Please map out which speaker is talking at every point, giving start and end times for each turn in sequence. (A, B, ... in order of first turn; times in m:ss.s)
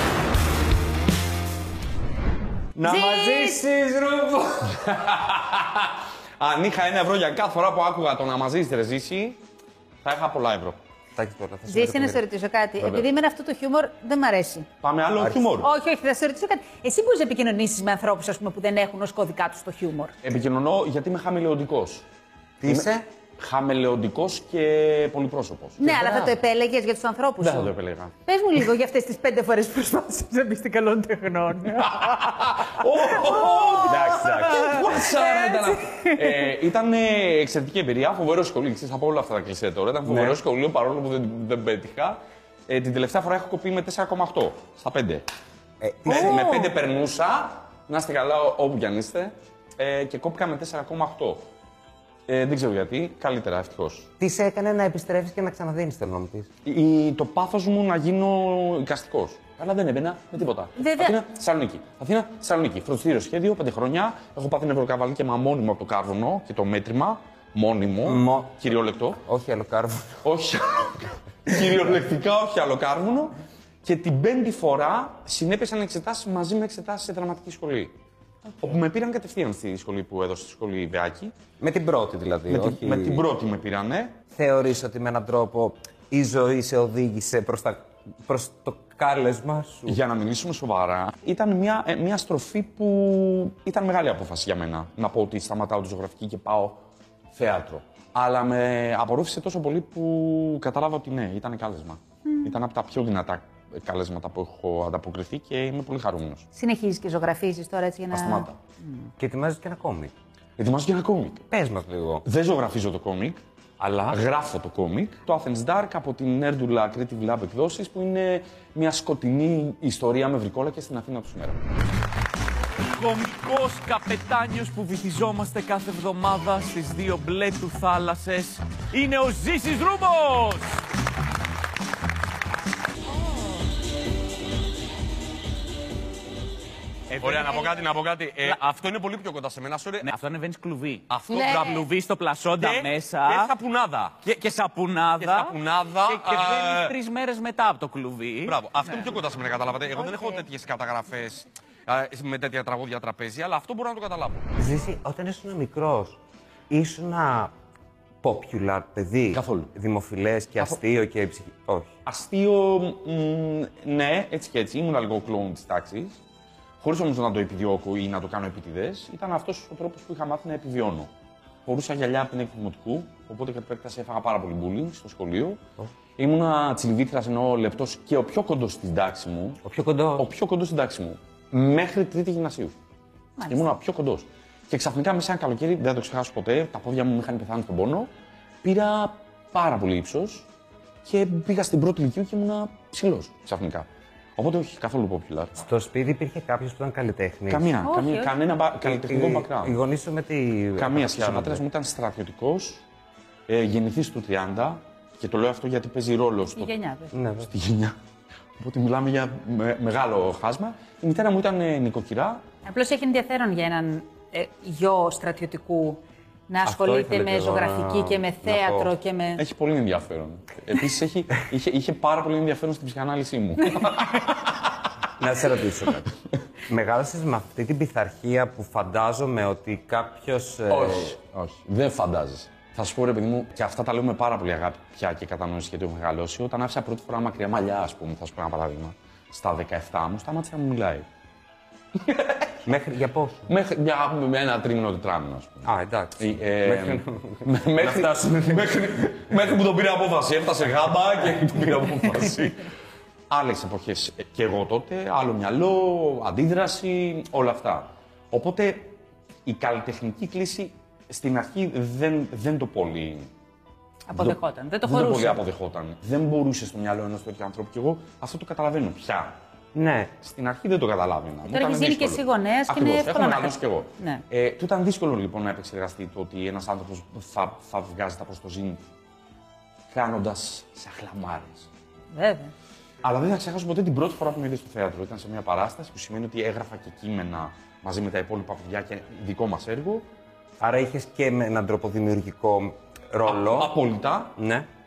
0:02.8-0:04.7 A
0:02.8-0:03.6 B
0:04.8-0:09.4 C
0:10.0-0:10.8 C
0:11.2-0:12.2 A
0:11.7-0:14.7 B
0:12.8-0:13.0 C
0:14.8-0:15.7 C
0:15.2-0:15.5 A
0:15.6-0:20.1 B
0:20.2-0:22.1 C
0:22.6-0:23.0 A
0:22.6-0:25.9 C
0:25.8-0:27.7 B
0:26.0-0:26.3 A
0:27.4-0:28.1 C
0:28.2-0:32.3 B
0:32.0-0:45.2 C
0:33.2-0:34.1 B
0:33.8-0:35.1 A
0:35.1-0:36.5 B
0:40.0-0:40.4 A
0:45.8-0:46.7 A
0:46.0-0:51.5 C
0:52.3-0:54.1 C
0:54.2-0:56.5 A
0:56.6-1:09.2 C
1:00.8-1:01.2 B
1:08.0-1:08.6 A
1:09.2-1:10.2 A
1:10.2-1:17.9 C
1:18.6-1:21.3 C
1:21.6-1:23.2 A
1:22.5-1:24.2 C
1:24.3-1:30.0 A
1:29.9-1:46.4 C
1:42.2-1:42.6 B
1:46.5-1:49.0 B
1:48.1-1:48.6 C
1:49.2-1:50.1 A
1:50.6-1:51.5 C
1:51.5-1:52.2 A
1:52.2-2:01.6 C
1:53.8-1:54.2 A
2:02.9-2:10.8 D
2:17.1-2:20.1 C
2:17.2-2:17.8 D
2:20.0-2:23.5 D
2:21.1-2:21.8 C
2:22.6-2:24.3 C
2:24.3-2:28.6 D
2:25.2-2:27.0 C
2:28.4-2:34.5 C
2:34.6-2:37.5 A
2:38.2-2:41.9 A
2:39.3-2:39.7 C
2:40.6-2:40.8 C
2:42.0-2:46.2 C
2:46.8-2:51.1 C
2:51.6-2:55.6 C
2:56.2-2:59.6 C
2:59.6-3:00.3 A
3:00.2-3:02.7 C
3:03.4-3:03.7 B
3:03.5-3:08.1 C
3:08.6-3:10.5 C
3:11.0-3:15.5 C
3:15.6-3:17.7 A
3:17.5-3:19.8 C
3:17.8-3:18.3 B
3:18.8-3:21.6 A
3:20.8-3:22.8 C
3:23.5-3:26.7 C
3:26.6-3:27.1 B
3:27.1-3:27.5 A
3:27.5-3:28.0 C
3:28.6-3:32.4 C
3:32.6-3:39.4 B
3:36.6-3:38.9 A
3:39.4-3:44.6 C
3:45.2-3:46.1 A
3:46.7-3:51.1 A
3:50.7-4:01.0 C
4:02.6-4:03.5 A
4:03.5-4:12.6 C
4:05.6-4:08.8 A
4:13.3-4:23.3 C
4:24.1-4:25.4 B
4:24.2-4:29.4 C
4:29.7-4:30.1 A
4:30.2-4:38.8 C
4:31.5-4:34.2 B
4:39.9-4:41.7 C
4:42.1-4:42.5 B
4:43.0-4:50.0 C
4:50.6-4:53.7 A
4:53.2-4:54.3 C
4:54.4-4:54.7 A